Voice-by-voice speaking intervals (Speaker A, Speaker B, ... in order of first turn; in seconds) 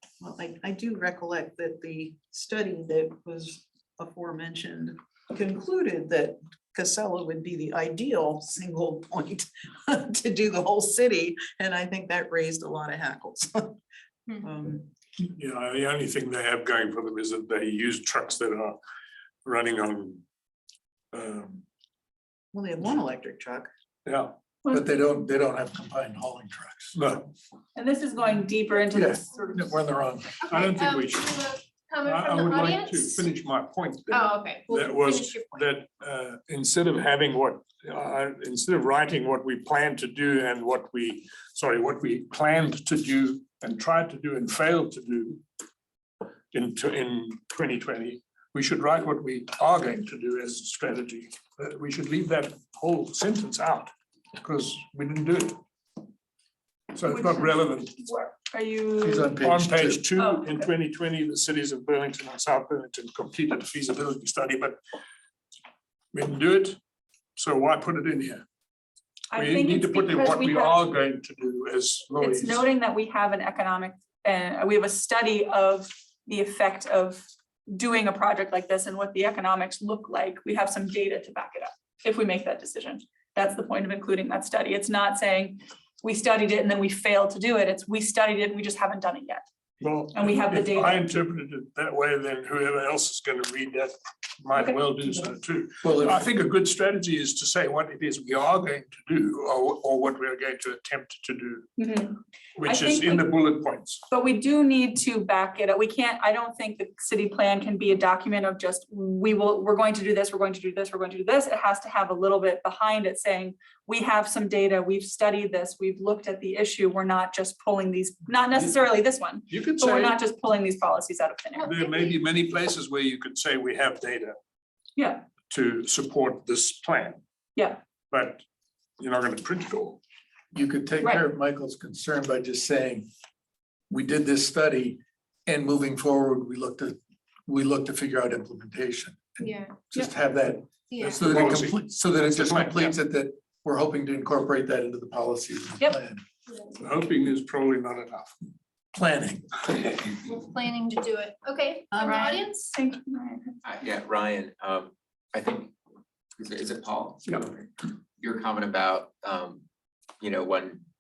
Speaker A: 0.2-13.8, 14.4-14.9, 22.5-23.7, 151.9-152.5
Speaker B: 15.2-18.8, 19.4-20.2, 21.1-21.6, 24.1-24.4, 26.9-27.3, 30.4-31.5, 32.0-45.4, 46.5-55.6, 56.9-58.0, 59.4-64.8, 66.1-66.8, 67.4-68.5, 69.3-72.7, 89.8-101.7, 102.6-104.0, 119.5-120.2, 121.6-124.4, 125.5-127.2, 128.1-128.4, 129.0-130.0, 141.0-142.9, 146.8-148.4
Speaker C: 24.6-24.9, 27.8-29.9, 57.1-59.4, 60.2-60.7, 69.3-70.8, 72.2-89.4, 90.1-91.1, 94.6-95.3, 101.8-103.3, 104.1-121.9, 125.0-125.3, 131.0-131.3, 152.0-153.6
Speaker D: 24.7-26.9, 28.9-30.4, 59.0-60.0, 95.8-96.2, 130.5-133.1, 133.9-146.2, 148.9-149.5
Speaker E: 30.4-33.0, 34.1-35.5, 139.4-139.7, 140.9-141.5, 150.3-152.5
Speaker F: 153.6-155.7, 156.4-159.6, 160.2-160.8